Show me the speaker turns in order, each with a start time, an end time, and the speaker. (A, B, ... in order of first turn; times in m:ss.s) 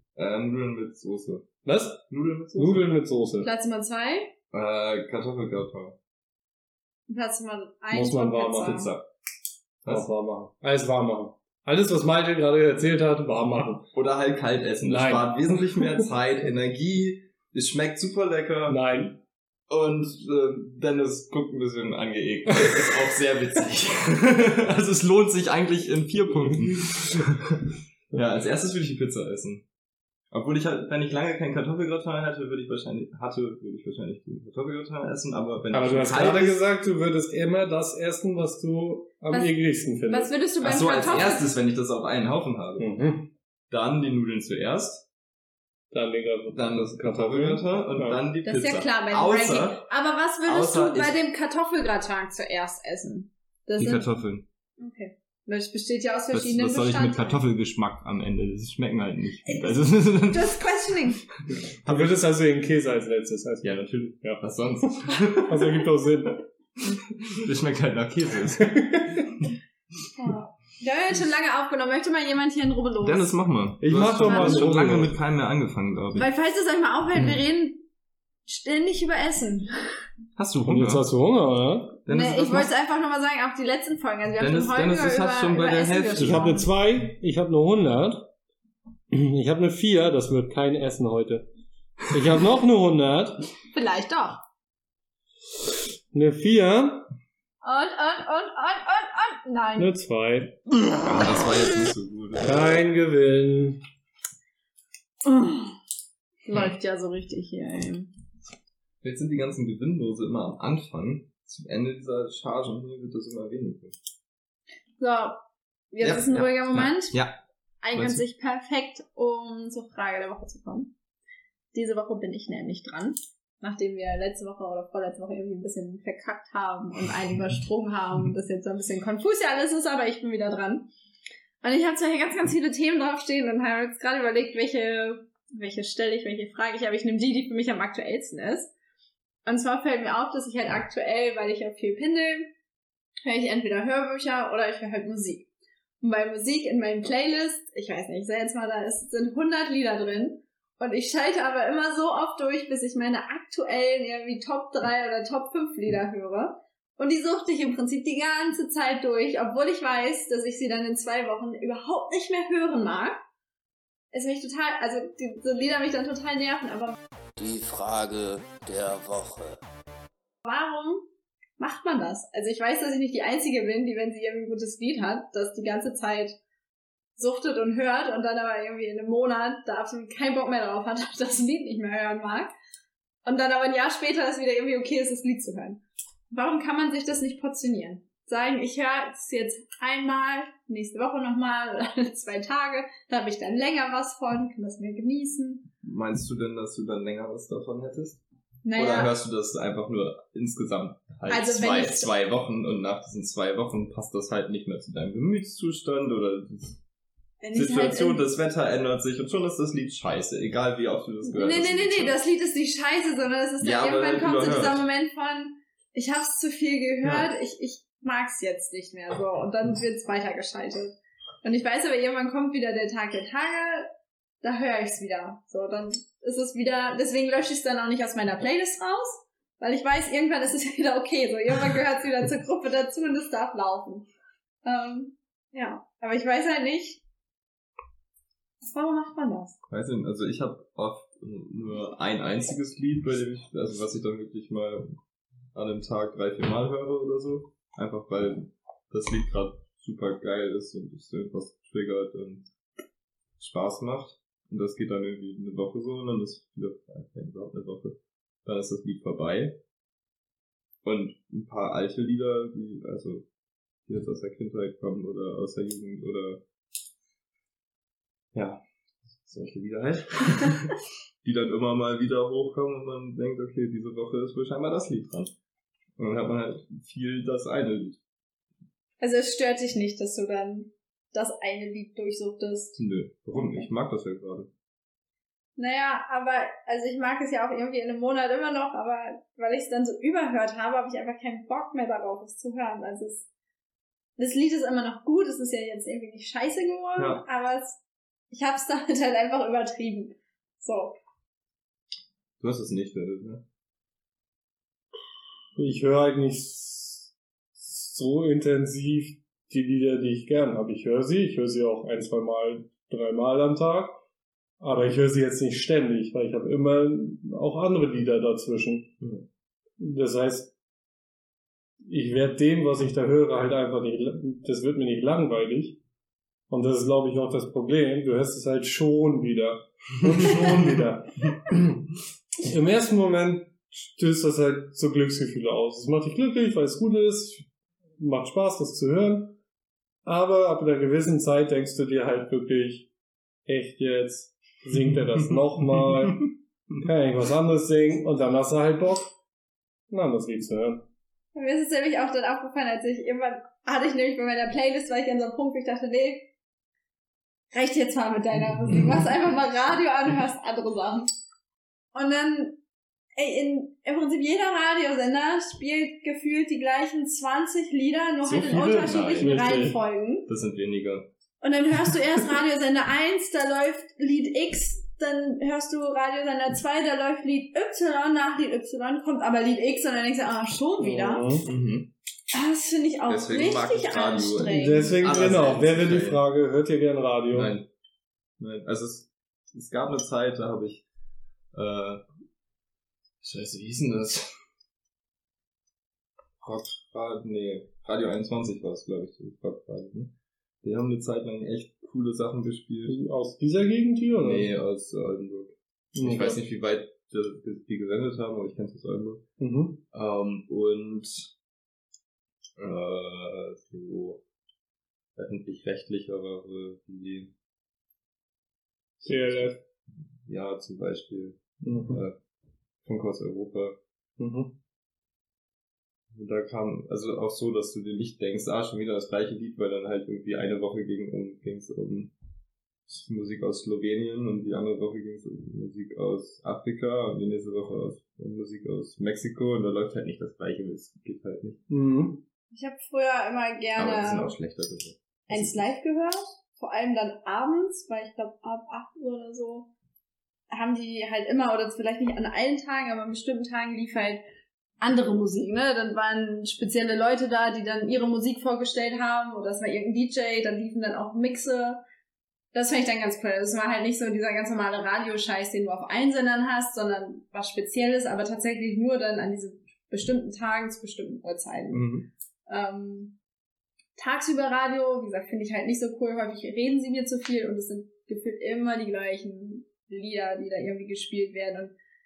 0:00.2-0:01.5 A
0:01.6-0:02.0 B
0:02.1-0:02.9 A
0:02.6-0:03.5 B
0:03.4-0:04.3 C
0:04.5-0:06.0 A
0:07.1-0:08.9 C
0:07.9-0:08.8 B
0:08.6-0:09.0 A
0:09.9-0:13.9 B
0:13.9-0:18.8 A
0:14.8-0:16.0 B
0:18.7-0:19.2 B
0:19.7-0:29.6 A
0:30.3-0:36.6 A
0:35.7-0:40.3 B
0:39.3-0:41.5 C
0:40.6-0:42.9 A
0:42.8-0:43.3 B
0:43.7-0:45.0 A
0:45.9-0:48.2 B
0:46.5-0:49.8 A
0:48.4-0:54.1 C
0:50.4-0:51.2 A
0:53.8-0:54.4 A
0:54.8-0:57.4 C
0:56.3-1:00.8 A
0:59.4-1:01.2 C
1:01.4-1:02.2 A
1:01.8-1:04.4 B
1:03.6-1:05.8 A
1:05.4-1:06.4 B
1:07.3-1:09.4 A
1:08.8-1:09.2 B
1:10.2-1:13.4 C
1:13.0-1:16.3 A
1:13.8-1:15.1 B
1:14.2-1:14.7 C
1:16.1-1:17.8 C
1:18.4-1:19.7 C
1:20.4-1:21.0 A
1:20.7-1:22.0 B
1:22.0-1:22.7 A
1:22.1-1:26.6 C
1:24.4-1:26.5 A
1:26.2-1:28.3 B
1:29.1-1:31.5 B
1:32.1-1:33.4 B
1:33.7-1:34.4 C
1:36.1-1:37.1 B
1:37.6-1:39.9 C
1:39.8-1:40.6 B
1:41.0-1:42.8 A
1:42.4-1:43.8 B
1:45.2-1:45.8 C
1:46.4-1:48.1 C
1:49.0-1:54.0 A
1:55.0-1:57.2 C
1:56.0-1:57.3 A
1:57.8-2:00.9 C
1:57.9-1:58.2 A
2:01.7-2:10.9 C
2:11.6-2:18.7 C
2:19.4-2:22.5 C
2:23.2-2:25.5 C
2:26.0-2:43.2 C
2:44.1-2:47.0 C
2:47.4-2:49.6 D
2:50.4-2:51.1 C
2:51.6-2:56.4 C
2:57.2-3:02.5 C
3:03.2-3:15.7 C
3:15.8-3:18.2 A
3:18.6-3:19.1 C
3:18.7-3:26.8 A
3:21.3-3:22.1 C
3:27.4-3:28.2 C
3:27.5-3:32.2 A
3:31.2-3:43.9 C
3:33.6-3:34.8 A
3:37.0-3:37.3 A
3:44.4-3:54.1 C
3:54.6-3:57.0 C
3:58.6-3:59.6 C
3:59.7-4:05.0 A
4:05.5-4:12.5 A
4:13.4-4:19.6 A
4:20.8-4:23.2 A
4:23.9-4:26.4 A
4:28.3-4:28.6 A
4:29.2-4:35.3 A
4:36.0-4:38.0 A
4:39.0-4:42.8 C
4:42.8-4:44.5 A
4:43.3-4:43.7 C
4:45.6-4:53.2 C
4:54.2-4:57.8 C
4:57.0-4:57.2 A
4:58.3-5:01.0 C
5:02.4-5:03.4 A
5:05.5-5:14.0 B
5:14.6-5:19.0 B
5:19.8-5:20.5 B
5:21.8-5:25.8 B
5:26.5-5:31.9 B
5:32.4-5:39.4 B
5:40.0-5:42.9 B
5:43.4-5:49.1 B
5:45.8-5:46.3 A
5:49.9-5:50.9 B
5:51.3-5:56.3 C
5:57.5-6:01.1 C
6:01.9-6:02.6 C
6:03.1-6:10.3 C
6:08.2-6:09.4 A
6:09.2-6:09.8 B
6:10.2-6:11.1 A
6:11.4-6:21.4 C
6:20.8-6:21.5 B
6:21.4-6:21.9 A
6:22.3-6:24.9 C
6:23.1-6:26.2 A
6:24.5-6:27.5 B
6:27.3-6:27.6 A
6:28.4-6:30.8 A
6:31.5-6:32.0 A
6:33.2-6:34.4 A
6:36.4-6:40.1 A
6:40.6-6:43.0 A
6:42.9-6:44.5 B
6:44.1-6:49.2 A
6:45.9-6:46.4 B
6:49.4-6:49.8 B
6:49.9-6:51.3 A
6:52.6-6:54.2 A
6:55.2-6:57.3 A
6:59.0-6:59.6 A
6:59.0-6:59.6 B
7:00.2-7:02.2 A
7:01.6-7:02.0 B
7:02.8-7:03.8 A
7:04.2-7:04.6 B
7:06.1-7:12.1 A
7:12.9-7:21.6 A
7:21.7-7:22.2 B
7:22.5-7:24.3 C
7:23.8-7:25.7 A
7:25.3-7:29.7 C
7:30.5-7:34.2 C
7:34.8-7:41.8 C
7:42.5-7:51.9 C
7:51.7-7:52.1 A
7:52.5-7:53.2 C
7:54.0-8:01.8 C